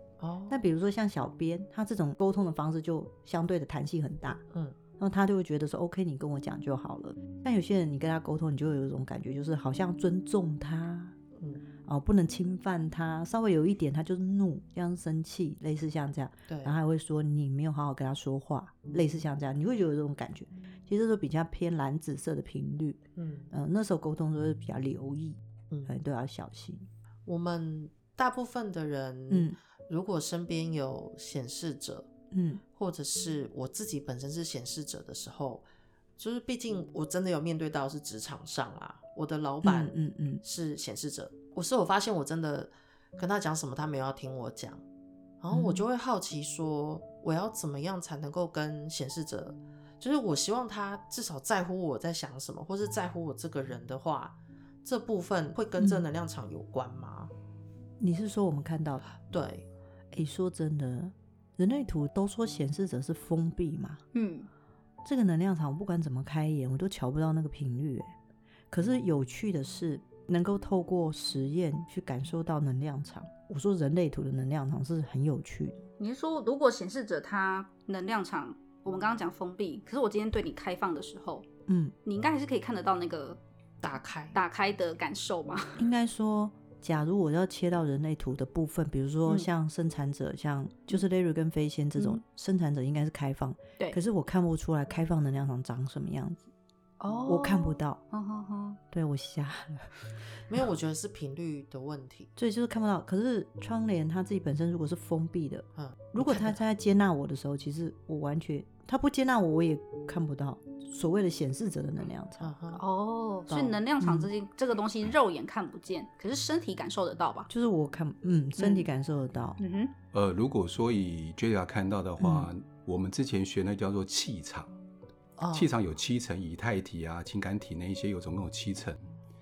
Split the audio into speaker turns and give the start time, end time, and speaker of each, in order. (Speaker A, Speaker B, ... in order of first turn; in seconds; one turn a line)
Speaker A: 0.2-0.6
Speaker B: 0.5-4.4
Speaker A: 4.5-4.8
Speaker B: 5.0-11.1
Speaker A: 11.4-11.6
Speaker B: 11.8-26.9
Speaker A: 16.5-16.8
Speaker A: 23.1-23.5
Speaker A: 27.2-32.1
Speaker B: 29.3-29.6
Speaker B: 32.3-32.6
Speaker A: 32.8-35.6
Speaker A: 36.2-44.8
Speaker B: 39.6-40.4
Speaker A: 45.4-57.3
Speaker B: 45.5-45.8
Speaker B: 55.8-56.0
Speaker B: 58.0-59.1
Speaker A: 59.3-59.6
Speaker B: 60.1-64.0
Speaker C: 64.1-64.5
Speaker B: 65.0-68.1
Speaker B: 68.7-75.8
Speaker C: 76.0-81.5
Speaker B: 81.7-81.9
Speaker C: 82.0-83.4
Speaker A: 83.8-84.3
Speaker C: 84.3-85.8
Speaker B: 85.8-96.5
Speaker C: 97.0-98.8
Speaker B: 97.3-98.0
Speaker B: 98.9-99.9
Speaker A: 100.5-102.3
Speaker B: 102.4-112.5
Speaker A: 105.8-106.6
Speaker A: 112.4-112.8
Speaker C: 112.8-117.5
Speaker A: 113.5-113.8
Speaker B: 114.0-114.3
Speaker B: 117.5-119.6
Speaker C: 119.6-119.9
Speaker D: 120.1-124.7
Speaker B: 122.2-122.5
Speaker A: 125.4-125.7
Speaker D: 125.5-129.0